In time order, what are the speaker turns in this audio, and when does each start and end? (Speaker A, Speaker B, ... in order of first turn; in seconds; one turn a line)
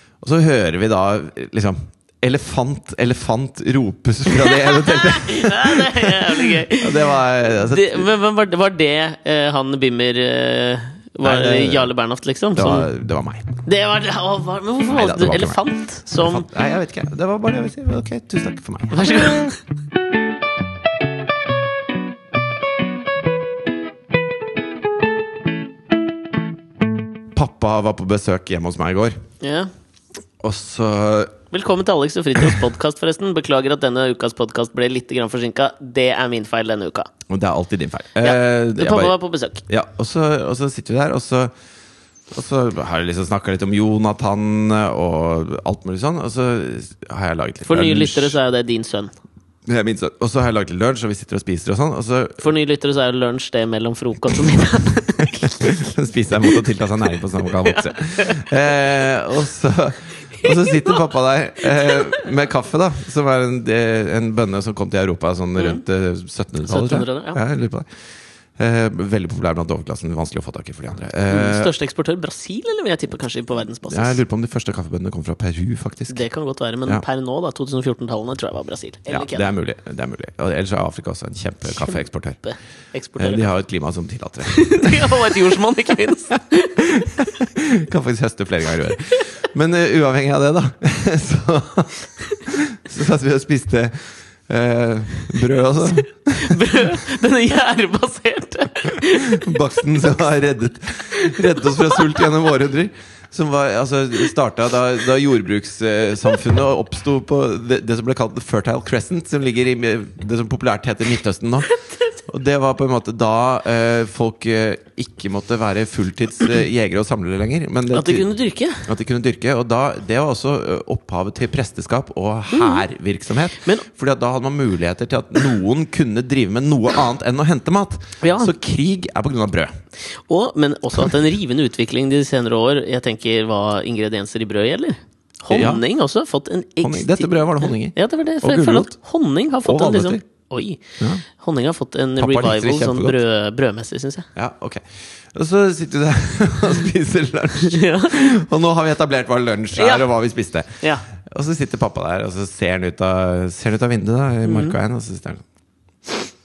Speaker A: 0.2-8.1
Speaker B: 4.3-12.9
Speaker A: 11.2-11.9
Speaker A: 12.6-13.6
Speaker B: 13.7-16.5
Speaker A: 14.9-15.6
Speaker A: 16.1-19.5
Speaker B: 18.9-19.6
Speaker A: 27.3-29.2
Speaker B: 29.4-29.7
Speaker A: 30.4-31.4
Speaker B: 31.5-37.1
Speaker A: 37.3-39.2
Speaker B: 38.2-39.6
Speaker A: 39.7-41.5
Speaker A: 42.3-48.4
Speaker B: 47.7-49.1
Speaker A: 49.7-52.4
Speaker B: 52.4-55.8
Speaker A: 55.3-67.9
Speaker B: 57.6-58.5
Speaker B: 60.4-61.0
Speaker B: 61.8-62.2
Speaker B: 66.7-67.4
Speaker A: 68.6-71.7
Speaker B: 71.3-74.2
Speaker A: 73.9-76.2
Speaker B: 76.1-79.5
Speaker A: 79.1-82.4
Speaker B: 82.4-83.5
Speaker A: 83.2-85.5
Speaker B: 84.5-86.9
Speaker A: 86.8-94.0
Speaker A: 94.5-97.0
Speaker B: 96.3-99.5
Speaker A: 99.1-111.7
Speaker B: 101.1-102.3
Speaker B: 111.7-112.1
Speaker A: 112.3-118.3
Speaker B: 117.9-118.9
Speaker A: 118.8-129.7
Speaker B: 122.5-122.8
Speaker B: 128.2-128.5
Speaker B: 130.3-144.3
Speaker A: 135.5-135.8
Speaker A: 136.8-138.9
Speaker A: 139.7-140.2
Speaker A: 142.2-143.2
Speaker A: 144.4-155.4
Speaker B: 147.7-148.4
Speaker B: 149.8-150.1
Speaker B: 154.5-154.8